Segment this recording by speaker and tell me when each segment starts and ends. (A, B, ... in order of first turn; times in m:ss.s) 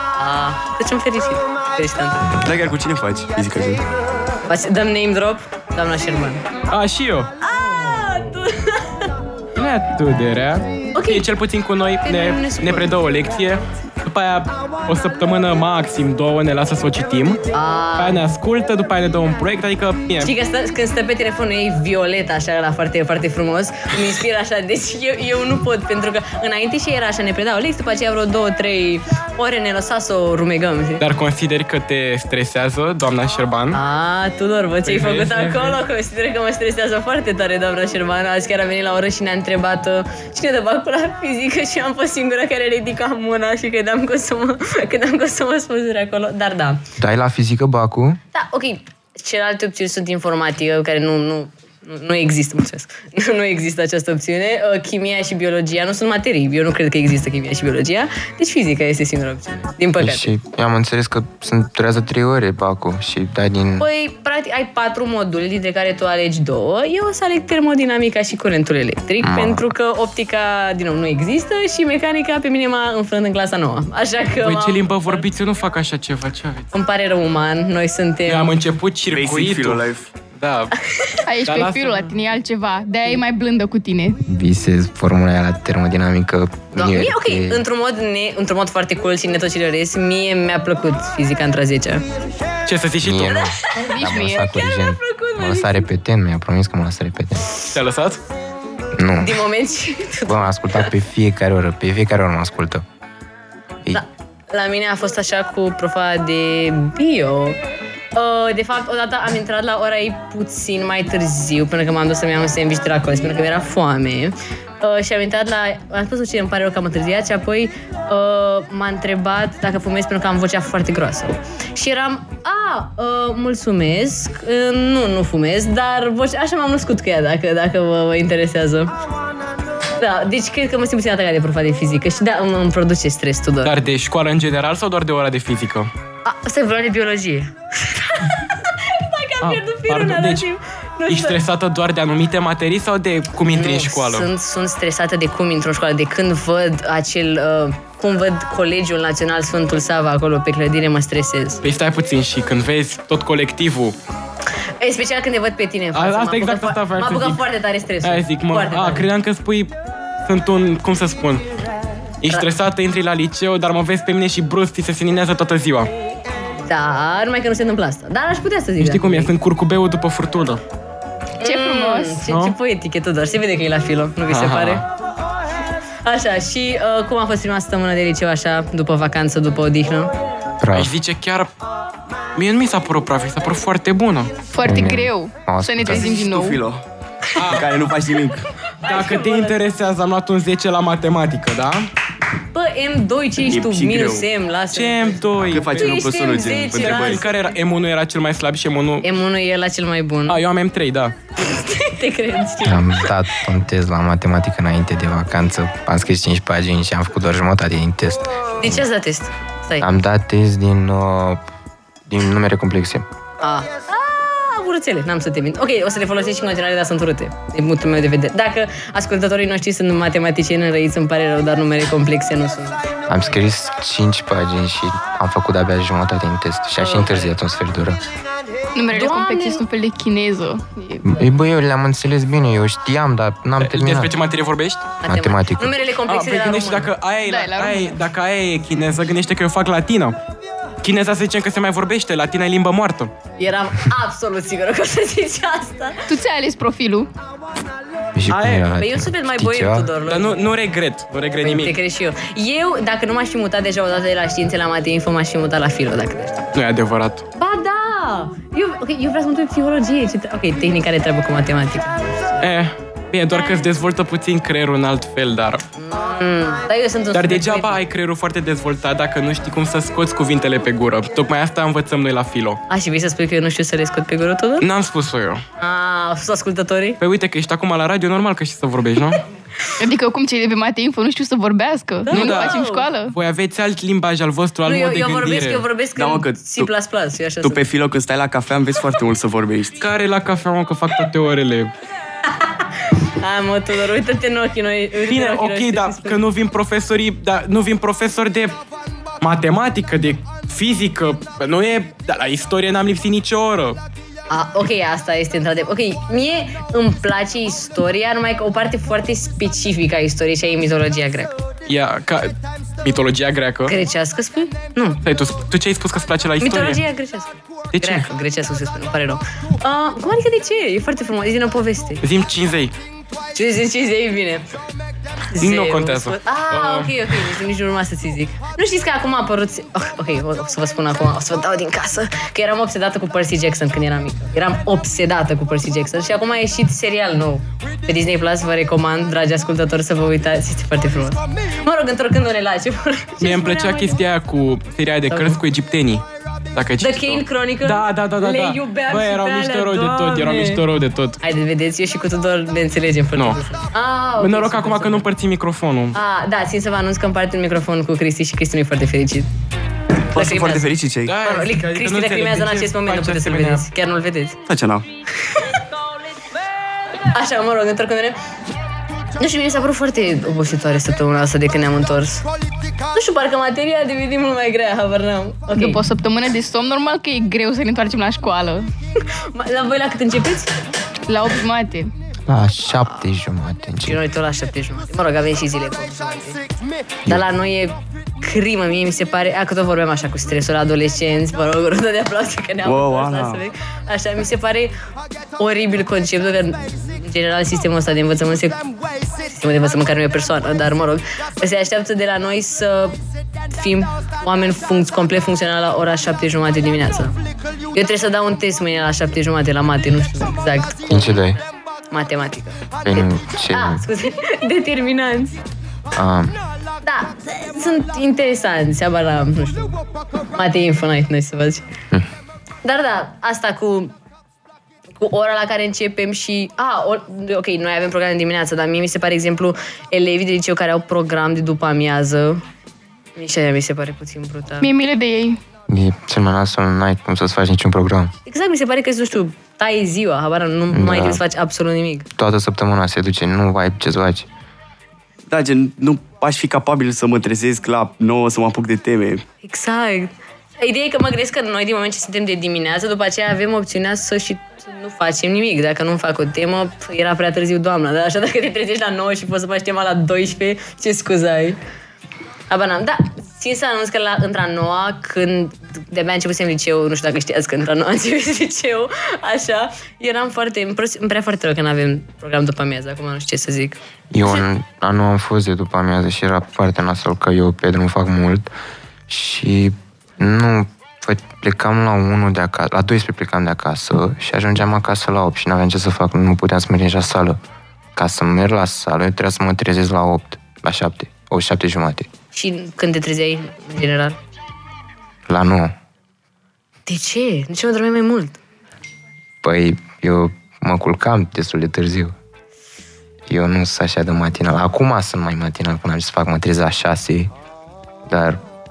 0:00.2-0:02.3 A
0:02.3-0:02.6 B
0:02.4-0:03.8 C
0:04.5-0:06.4 A
0:06.7-0:07.3 D
0:07.4-0:09.1 A
0:09.6-0:17.4 D
0:10.9-0:11.2 A
0:12.0-0:12.9 A
0:17.5-0:18.2 A
0:18.0-0:20.3 D
0:20.2-0:31.0 A
0:31.0-0:33.8 D
0:33.7-0:46.8 A
0:34.8-0:35.8 D
0:47.0-0:48.2 B
0:48.3-1:00.3 A
1:00.0-1:03.8 B
1:03.8-1:15.2 A
1:09.2-1:09.6 B
1:14.4-1:16.7 D
1:16.7-1:18.5 A
1:18.2-1:20.7 D
1:19.1-1:20.1 C
1:21.3-1:24.2 E
1:21.4-1:22.1 D
1:24.3-1:27.6 B
1:26.7-1:32.0 A
1:32.6-1:33.4 D
1:33.0-1:37.5 B
1:33.4-1:35.9 A
1:33.8-1:34.4 E
1:37.7-1:38.2 D
1:39.0-1:39.4 B
1:39.2-1:40.9 A
1:40.2-1:42.8 B
1:43.9-1:47.6 A
1:48.1-2:08.9 A
2:10.0-2:13.7 A
2:13.6-2:15.9 D
2:16.2-2:21.4 A
2:19.4-2:20.5 D
2:21.1-2:24.3 D
2:23.5-2:31.6 A
2:31.6-2:34.0 D
2:34.8-2:39.1 A
2:35.9-2:37.4 D
2:38.0-2:39.7 D
2:40.2-2:41.4 D
2:42.2-2:45.9 D
2:46.6-2:49.3 A
2:48.8-2:50.6 D
2:51.4-2:54.8 A
2:51.4-2:52.2 E
2:52.3-2:52.5 D
2:54.3-2:54.8 D
2:56.0-3:00.1 A
3:00.6-3:00.9 B
3:00.7-3:01.5 D
3:02.4-3:04.3 D
3:04.5-3:06.6 E
3:04.6-3:06.2 B
3:05.9-3:06.8 C
3:07.4-3:07.9 D
3:07.4-3:08.4 C
3:08.8-3:09.6 A
3:08.8-3:11.9 D
3:12.5-3:17.4 A
3:13.4-3:14.3 C
3:14.7-3:19.1 D
3:15.5-3:17.2 C
3:19.0-3:20.4 A
3:20.3-3:21.1 D
3:21.4-3:23.1 A
3:22.6-3:28.8 B
3:28.6-3:29.8 A
3:29.8-3:31.4 B
3:32.1-3:33.0 B
3:33.4-3:42.8 A
3:43.1-3:48.0 B
3:46.8-3:47.3 A
3:48.7-3:51.0 E
3:48.9-3:49.6 A
3:51.0-3:54.1 B
3:53.6-3:54.9 D
3:55.0-3:56.9 A
3:55.0-3:55.8 B
3:56.1-4:00.2 D
3:57.3-3:57.9 E
4:00.8-4:03.1 D
4:03.4-4:06.0 A
4:06.1-4:07.1 E
4:08.1-4:09.9 B
4:08.3-4:08.7 D
4:08.8-4:10.4 A
4:10.0-4:11.8 D
4:11.4-4:16.5 A
4:16.5-4:17.2 D
4:17.4-4:22.2 A
4:22.4-4:25.6 D
4:25.8-4:27.8 A
4:27.1-4:32.6 D
4:32.7-4:34.6 A
4:34.6-4:35.4 D
4:35.6-4:37.0 A
4:37.0-4:39.2 D
4:39.8-4:43.1 E
4:42.0-4:42.9 A
4:42.1-4:42.5 D
4:43.1-4:45.6 D
4:44.6-4:47.6 A
4:45.9-4:46.7 C
4:47.4-4:49.8 C
4:49.8-4:51.7 D
4:52.3-4:56.2 A
4:55.0-4:58.6 D
4:59.2-5:03.8 D
5:04.3-5:11.4 A
5:11.7-5:13.8 D
5:13.7-5:15.0 A
5:15.0-5:16.8 D
5:16.4-5:22.0 A
5:17.7-5:18.0 D
5:22.0-5:22.7 D
5:23.3-5:24.4 A
5:25.3-5:44.0 A
5:25.4-5:26.9 D
5:43.2-5:51.2 D
5:45.1-5:45.4 A
5:46.8-5:50.6 A
5:51.2-5:55.0 A
5:54.2-5:56.0 D
5:55.9-5:59.3 A
6:00.1-6:01.1 C
6:00.1-6:00.6 A
6:01.1-6:03.6 D
6:01.2-6:04.4 A
6:04.5-6:04.8 C
6:07.1-6:08.2 A
6:09.2-6:12.2 A
6:12.9-6:15.8 A
6:15.5-6:18.6 E
6:19.0-6:20.5 A
6:21.1-6:21.9 E
6:22.3-6:24.0 B
6:23.8-6:26.4 A
6:27.1-6:34.7 A
6:32.6-6:33.4 C
6:35.4-6:38.6 A
6:39.3-6:42.9 A
6:43.5-6:47.1 A
6:47.7-6:51.2 A
6:50.9-6:51.4 B
6:51.9-6:55.4 A
6:52.8-6:53.8 B
6:55.9-6:56.4 B
6:56.8-6:59.8 A
7:00.3-7:01.6 A
7:02.6-7:03.9 A
7:04.9-7:12.4 A
7:13.2-7:14.7 A
7:14.6-7:15.4 E
7:15.7-7:18.1 B
7:18.2-7:22.1 A
7:20.7-7:21.2 B
7:22.2-7:24.3 B
7:25.3-7:29.2 C
7:29.4-7:41.6 A
7:42.5-7:53.8 A
7:54.1-7:58.5 B
7:59.1-8:07.4 B
8:08.0-8:12.1 B
8:12.3-8:14.2 A
8:15.3-8:15.7 B
8:16.9-8:18.4 A
8:19.4-8:22.1 B
8:23.3-8:27.3 B
8:28.1-8:28.4 B